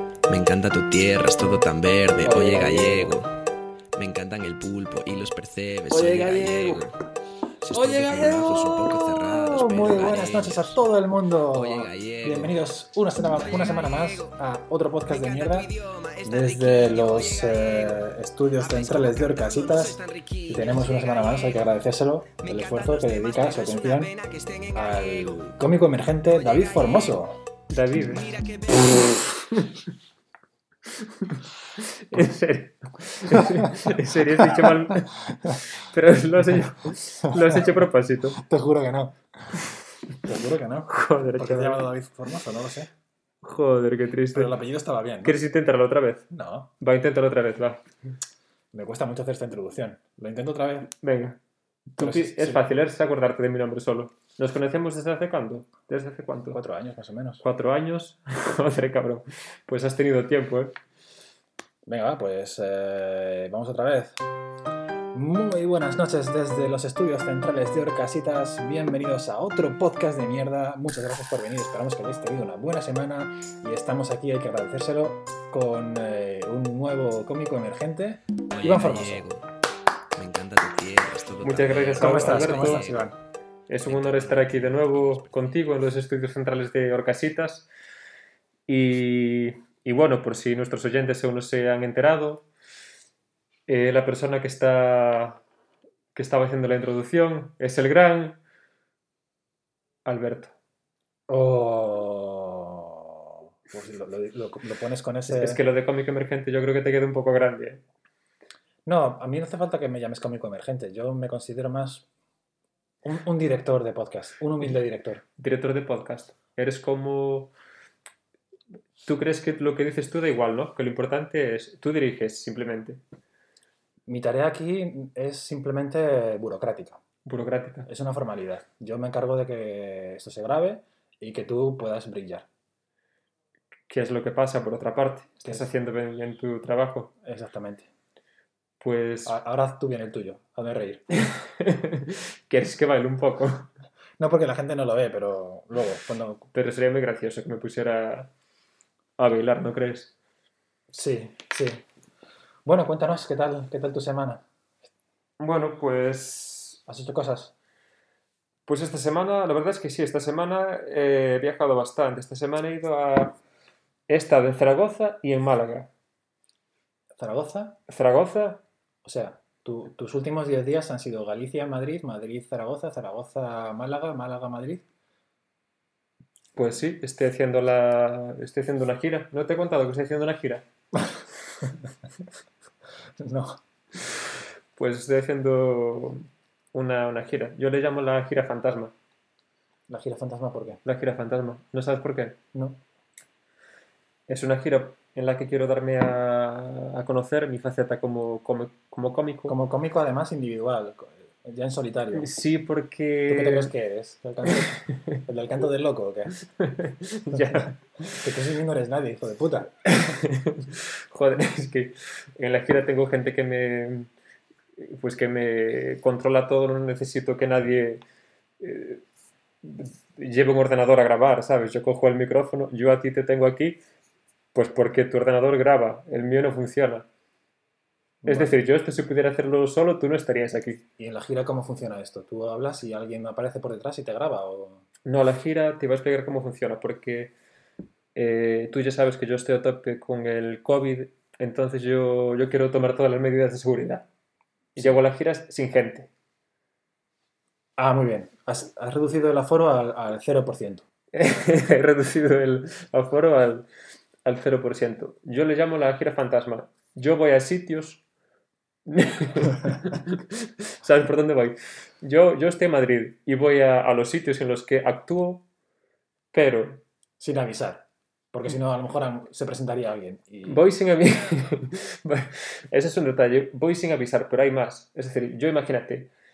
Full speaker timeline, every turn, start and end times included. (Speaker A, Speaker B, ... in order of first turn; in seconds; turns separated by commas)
Speaker A: 0.3-3.3, Speaker B: 2.2-3.2, Speaker A: 4.0-6.9, Speaker A: 7.6-10.8, Speaker B: 7.7-15.7, Speaker A: 11.5-12.6, Speaker A: 13.2-14.4, Speaker A: 15.1-21.7, Speaker B: 16.2-24.1, Speaker A: 22.4-25.4, Speaker B: 24.7-27.4, Speaker A: 26.3-27.2, Speaker C: 27.7-28.2, Speaker A: 28.0-29.2, Speaker C: 29.5-29.8, Speaker C: 31.0-38.4, Speaker B: 33.3-35.5, Speaker B: 37.3-37.8, Speaker B: 38.3-39.5, Speaker B: 40.2-42.9, Speaker C: 40.9-41.9, Speaker C: 43.4-44.5, Speaker B: 44.3-45.4, Speaker C: 45.2-47.8, Speaker B: 46.3-46.7, Speaker B: 48.7-50.9, Speaker C: 50.9-51.4, Speaker C: 51.9-56.6, Speaker B: 52.0-52.6, Speaker B: 56.5-57.4, Speaker C: 57.4-60.8, Speaker B: 61.9-64.2, Speaker B: 65.1-79.3, Speaker A: 78.5-79.4, Speaker A: 80.2-83.2, Speaker C: 81.4-82.9, Speaker B: 81.9-83.2, Speaker C: 83.7-87.7, Speaker A: 83.9-85.6, Speaker C: 88.7-92.5, Speaker C: 93.7-95.4, Speaker C: 96.1-98.4, Speaker C: 100.0-100.5, Speaker B: 101.3-105.6, Speaker C: 105.3-107.8, Speaker B: 108.9-112.1, Speaker B: 113.0-115.2, Speaker C: 115.4-117.5, Speaker C: 119.0-123.0, Speaker B: 124.1-127.0, Speaker C: 127.2-127.9, Speaker B: 127.9-132.5, Speaker C: 133.9-137.1, Speaker B: 137.2-137.9, Speaker C: 138.8-139.4, Speaker B: 139.2-141.0, Speaker C: 141.2-143.7, Speaker B: 144.2-146.5, Speaker C: 146.5-148.3, Speaker C: 149.2-150.1, Speaker B: 150.9-151.8, Speaker B: 152.7-154.4, Speaker C: 155.4-156.8, Speaker B: 156.9-157.5, Speaker C: 158.7-163.4, Speaker C: 164.1-165.9, Speaker B: 167.2-167.8, Speaker C: 167.9-168.6, Speaker B: 169.0-174.8, Speaker C: 176.6-180.7, Speaker B: 181.0-181.9, Speaker B: 183.2-183.6, Speaker C: 184.8-188.9, Speaker B: 189.9-190.8, Speaker C: 190.8-192.4, Speaker B: 192.5-192.8, Speaker C: 194.3-199.6, Speaker B: 199.5-202.3, Speaker C: 202.1-203.7, Speaker B: 203.3-206.3, Speaker C: 206.6-208.3, Speaker B: 207.3-209.7, Speaker C: 209.8-214.1, Speaker C: 214.8-218.0, Speaker C: 218.6-219.0, Speaker C: 219.6-223.8, Speaker C: 224.5-227.1, Speaker B: 228.2-228.5, Speaker C: 228.2-230.8, Speaker B: 231.0-234.8, Speaker C: 235.1-237.3, Speaker C: 238.2-244.1, Speaker C: 244.8-246.1, Speaker B: 247.8-250.8, Speaker C: 251.1-253.7, Speaker C: 254.2-258.0, Speaker C: 258.9-265.4, Speaker C: 266.3-266.8, Speaker B: 267.2-270.6, Speaker C: 270.4-276.1